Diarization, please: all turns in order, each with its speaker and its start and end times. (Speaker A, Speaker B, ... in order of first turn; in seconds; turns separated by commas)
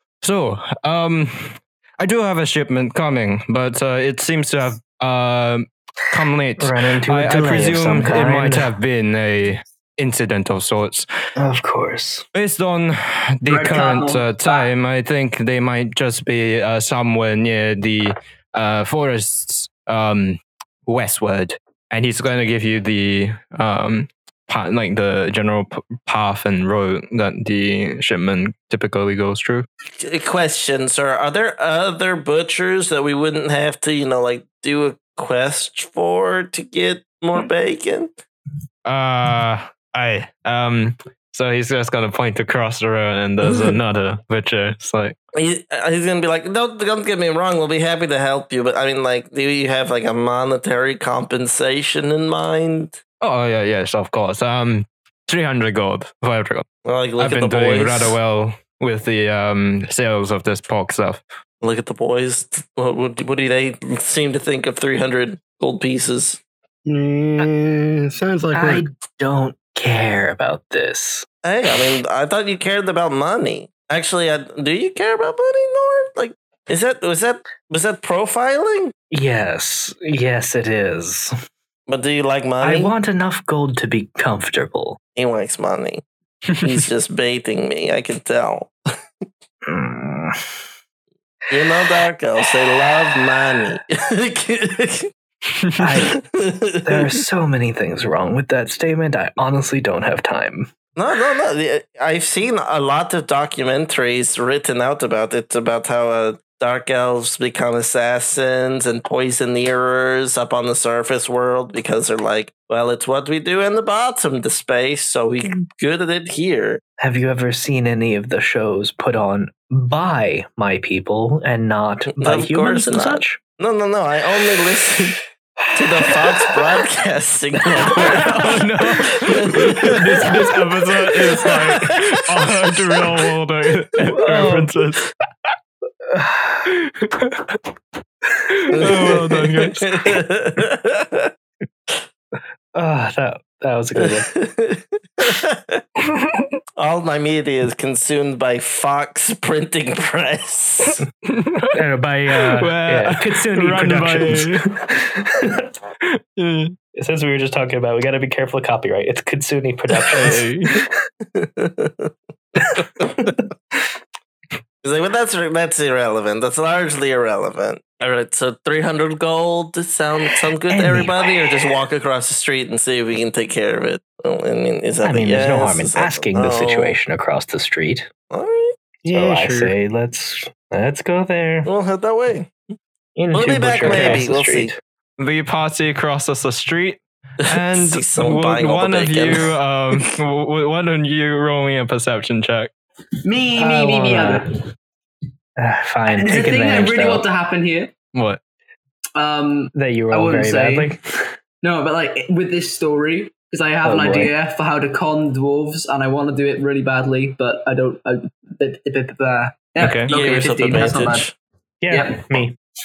Speaker A: 0.2-11.1, Speaker B: 6.6-8.8, Speaker B: 11.4-12.2, Speaker A: 12.3-29.7, Speaker C: 13.5-14.7, Speaker D: 30.0-38.1, Speaker A: 38.9-45.2, Speaker D: 43.4-43.7, Speaker D: 45.3-53.0, Speaker A: 53.2-56.7, Speaker D: 56.9-58.2, Speaker A: 57.2-61.2, Speaker D: 61.6-66.4, Speaker E: 66.9-68.8, Speaker B: 68.5-71.3, Speaker D: 71.4-78.9, Speaker B: 79.1-81.4, Speaker D: 81.9-82.9, Speaker B: 82.6-85.0, Speaker D: 85.2-86.0, Speaker A: 86.5-86.9, Speaker D: 86.6-88.7, Speaker B: 89.7-90.4, Speaker D: 91.5-95.1, Speaker A: 95.5-95.9, Speaker B: 95.8-96.2, Speaker D: 96.1-97.2, Speaker B: 96.8-100.7, Speaker D: 101.0-116.8, Speaker B: 117.0-123.4, Speaker D: 122.2-125.2, Speaker B: 125.7-126.2, Speaker D: 125.8-128.6, Speaker B: 127.9-128.3, Speaker A: 127.9-135.5, Speaker D: 129.2-130.2, Speaker D: 131.3-132.0, Speaker B: 134.1-134.7, Speaker B: 136.1-136.7, Speaker A: 136.7-137.6, Speaker A: 138.5-140.2, Speaker D: 138.7-141.2, Speaker B: 142.8-144.3, Speaker D: 144.0-145.8, Speaker A: 146.1-146.5, Speaker D: 146.8-151.0, Speaker A: 151.2-154.9, Speaker B: 151.7-155.6, Speaker A: 156.0-156.8, Speaker B: 156.9-160.5, Speaker A: 160.1-160.8, Speaker D: 161.3-162.1, Speaker D: 162.8-163.3, Speaker D: 164.8-177.0, Speaker B: 170.7-171.7, Speaker B: 175.0-178.1, Speaker D: 178.3-178.8, Speaker E: 179.1-179.7, Speaker B: 179.1-181.7, Speaker D: 181.7-182.5, Speaker B: 183.2-184.8, Speaker D: 183.3-184.7, Speaker A: 183.9-184.3, Speaker A: 185.2-192.7, Speaker D: 187.4-189.5, Speaker C: 193.2-194.5, Speaker B: 193.6-194.5, Speaker B: 195.6-197.3, Speaker C: 196.1-197.9, Speaker A: 198.1-198.4, Speaker C: 199.2-200.9, Speaker B: 199.7-201.3, Speaker C: 201.6-211.3, Speaker B: 203.8-204.3, Speaker A: 209.8-210.1, Speaker D: 210.1-211.3, Speaker B: 211.8-212.6, Speaker C: 211.9-212.3